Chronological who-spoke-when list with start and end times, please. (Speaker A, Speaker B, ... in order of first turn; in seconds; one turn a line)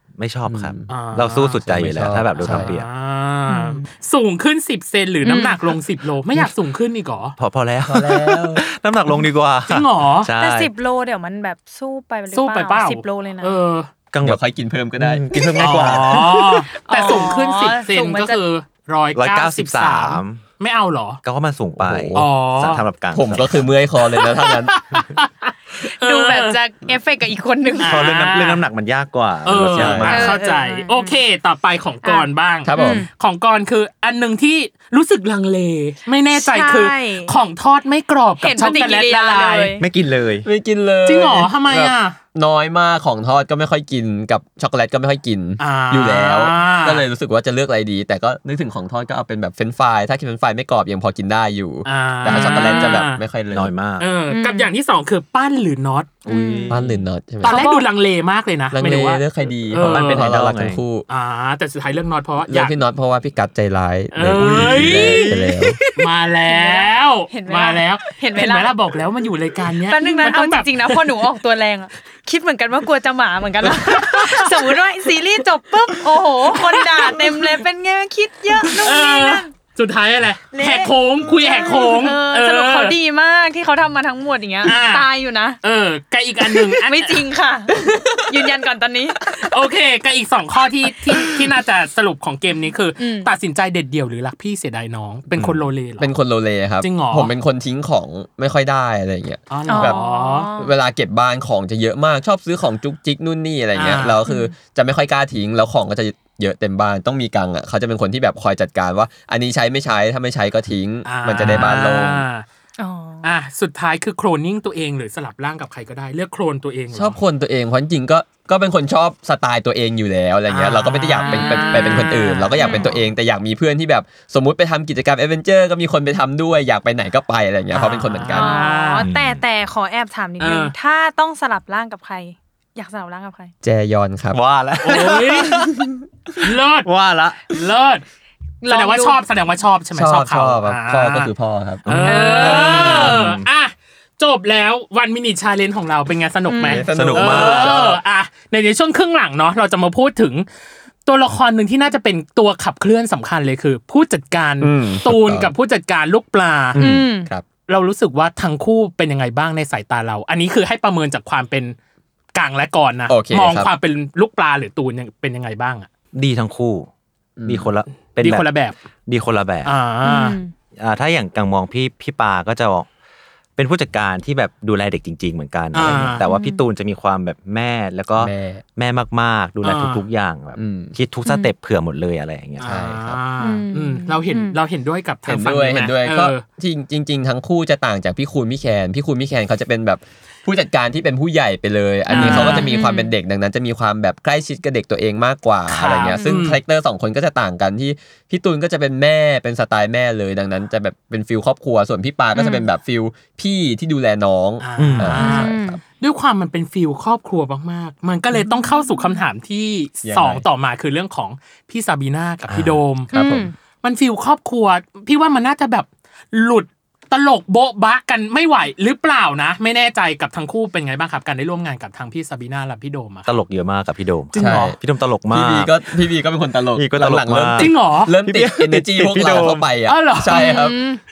Speaker A: 0.2-2.9
Speaker B: 0.5-0.9
Speaker C: 0.9-1.7
Speaker B: 1.7-2.7
Speaker C: 2.4-7.4
Speaker D: 3.5-3.9
Speaker D: 5.2-5.6
Speaker A: 7.4-10.7
Speaker B: 7.8-8.6
Speaker C: 9.7-10.3
Speaker D: 10.4-13.6
Speaker C: 12.3-13.9
Speaker A: 14.1-14.4
Speaker B: 14.2-16.1
Speaker A: 15.0-16.6
Speaker C: 15.6-21.2
Speaker D: 16.7-18.4
Speaker A: 19.1-20.4
Speaker A: 21.2-23.7
Speaker B: 21.8-22.3
Speaker C: 22.1-22.8
Speaker B: 23.1-24.8
Speaker C: 24.4-26.6
Speaker D: 25.8-28.0
Speaker C: 27.8-28.6
Speaker A: 27.9-30.3
Speaker C: 29.4-39.7
Speaker B: 29.6-30.3
Speaker D: 30.1-31.2
Speaker D: 32.0-33.1
Speaker B: 32.6-33.0
Speaker D: 36.3-37.3
Speaker D: 38.4-39.8
Speaker A: 39.8-40.5
Speaker B: 40.4-53.7
Speaker C: 41.0-42.2
Speaker C: 45.6-47.0
Speaker C: 51.8-53.2
Speaker D: 52.2-53.0
Speaker A: 53.5-54.1
Speaker C: 54.0-56.7
Speaker D: 54.3-54.7
Speaker D: 56.2-56.9
Speaker B: 56.7-57.6
Speaker D: 57.4-57.9
Speaker C: 57.4-60.3
Speaker B: 58.7-61.0
Speaker A: 59.8-60.8
Speaker C: 61.1-62.8
Speaker B: 62.5-65.8
Speaker C: 64.1-65.4
Speaker A: 64.3-65.2
Speaker C: 65.9-71.1
Speaker D: 66.4-68.7
Speaker D: 69.8-79.5
Speaker C: 73.7-74.5
Speaker C: 76.5-77.5
Speaker C: 78.7-83.0
Speaker D: 80.5-85.6
Speaker C: 84.6-85.1
Speaker C: 85.6-87.2
Speaker D: 86.4-89.5
Speaker C: 89.4-96.1
Speaker D: 92.6-93.3
Speaker B: 96.0-100.0
Speaker C: 96.8-97.3
Speaker C: 99.5-100.5
Speaker D: 99.7-100.7
Speaker B: 100.6-112.2
Speaker C: 103.7-104.2
Speaker D: 104.2-104.5
Speaker C: 111.0-112.4
Speaker D: 112.8-113.3
Speaker C: 113.2-117.2
Speaker B: 116.9-128.5
Speaker C: 120.5-123.0
Speaker D: 121.2-123.0
Speaker C: 127.7-129.1
Speaker D: 128.3-133.5
Speaker A: 129.0-129.4
Speaker C: 130.4-130.7
Speaker B: 133.6-134.4
Speaker A: 134.3-135.9
Speaker C: 134.8-135.7
Speaker C: 136.4-136.9
Speaker A: 136.8-137.5
Speaker C: 137.5-138.0
Speaker D: 138.6-139.2
Speaker C: 138.7-141.3
Speaker B: 139.9-141.8
Speaker A: 141.8-143.4
Speaker C: 141.9-150.4
Speaker D: 142.1-143.1
Speaker B: 142.7-143.2
Speaker D: 146.5-146.9
Speaker B: 146.6-148.0
Speaker A: 146.9-147.8
Speaker C: 151.1-156.8
Speaker B: 154.6-155.5
Speaker A: 156.7-157.1
Speaker D: 156.8-157.3
Speaker C: 157.7-161.8
Speaker C: 162.3-165.9
Speaker B: 163.1-163.7
Speaker A: 166.1-166.9
Speaker B: 167.4-167.7
Speaker A: 167.4-168.5
Speaker C: 168.2-168.8
Speaker A: 169.1-169.8
Speaker C: 169.6-170.4
Speaker D: 170.0-170.5
Speaker A: 170.8-172.9
Speaker A: 173.6-183.2
Speaker C: 175.7-176.2
Speaker D: 176.2-176.6
Speaker B: 178.2-178.6
Speaker C: 179.6-180.0
Speaker B: 180.5-180.9
Speaker D: 181.2-181.5
Speaker C: 182.6-186.4
Speaker B: 182.6-183.1
Speaker D: 183.4-184.6
Speaker B: 185.3-205.7
Speaker D: 192.1-193.1
Speaker C: 192.1-192.7
Speaker C: 195.7-196.6
Speaker D: 196.1-196.4
Speaker D: 202.3-202.7
Speaker C: 204.6-213.1
Speaker A: 204.8-205.2
Speaker D: 205.1-205.8
Speaker D: 208.3-209.2
Speaker B: 210.0-210.4
Speaker A: 212.5-212.8
Speaker D: 213.1-213.5
Speaker B: 213.1-213.5
Speaker C: 213.8-223.4
Speaker A: 223.3-225.7
Speaker C: 224.3-224.8
Speaker B: 224.3-224.8
Speaker B: 225.3-230.8
Speaker A: 226.7-229.7
Speaker C: 227.6-228.1
Speaker C: 229.9-230.5
Speaker D: 230.3-231.0